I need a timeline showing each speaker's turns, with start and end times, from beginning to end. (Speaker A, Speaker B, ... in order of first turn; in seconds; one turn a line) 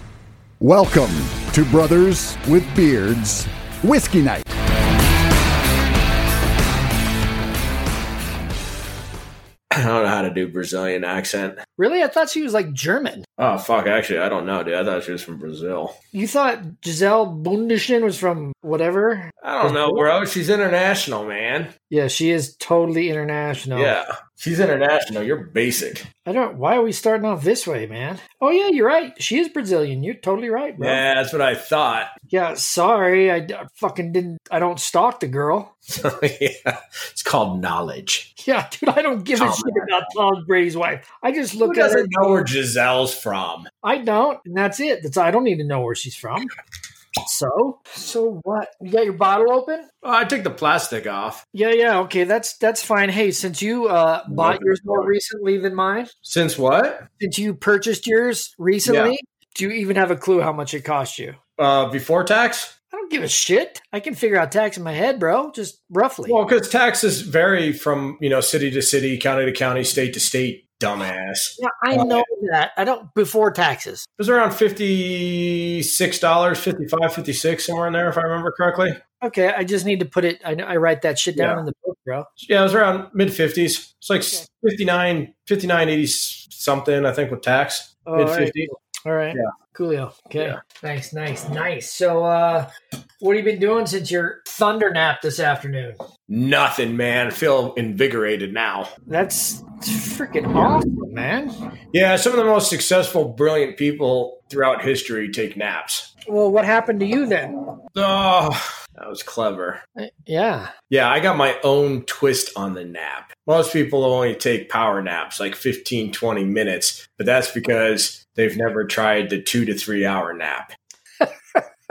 Speaker A: 0.6-4.5
Speaker B: 9.7-11.6
Speaker C: 11.8-13.2
Speaker B: 13.4-15.9
Speaker C: 16.1-20.0
Speaker B: 19.4-21.7
Speaker C: 21.9-23.9
Speaker B: 23.7-26.1
Speaker C: 26.2-31.0
Speaker B: 30.8-32.1
Speaker C: 32.3-35.7
Speaker B: 35.9-38.3
Speaker C: 38.4-42.3
Speaker B: 39.4-40.1
Speaker B: 41.6-43.7
Speaker C: 43.8-46.5
Speaker C: 47.2-49.9
Speaker B: 50.0-51.4
Speaker C: 51.5-56.1
Speaker B: 54.3-55.1
Speaker B: 56.2-57.0
Speaker C: 57.2-61.4
Speaker B: 58.8-59.1
Speaker B: 61.6-62.7
Speaker C: 62.9-66.4
Speaker B: 66.3-72.2
Speaker C: 71.6-74.0
Speaker B: 74.2-79.0
Speaker C: 79.2-82.3
Speaker B: 81.3-81.6
Speaker B: 82.4-88.8
Speaker C: 88.0-88.5
Speaker C: 89.0-92.7
Speaker C: 93.2-96.0
Speaker B: 96.3-98.9
Speaker C: 99.1-101.5
Speaker B: 100.5-100.8
Speaker B: 101.9-106.1
Speaker C: 106.3-107.5
Speaker B: 107.9-109.8
Speaker C: 110.0-110.7
Speaker B: 110.9-120.7
Speaker C: 121.2-121.6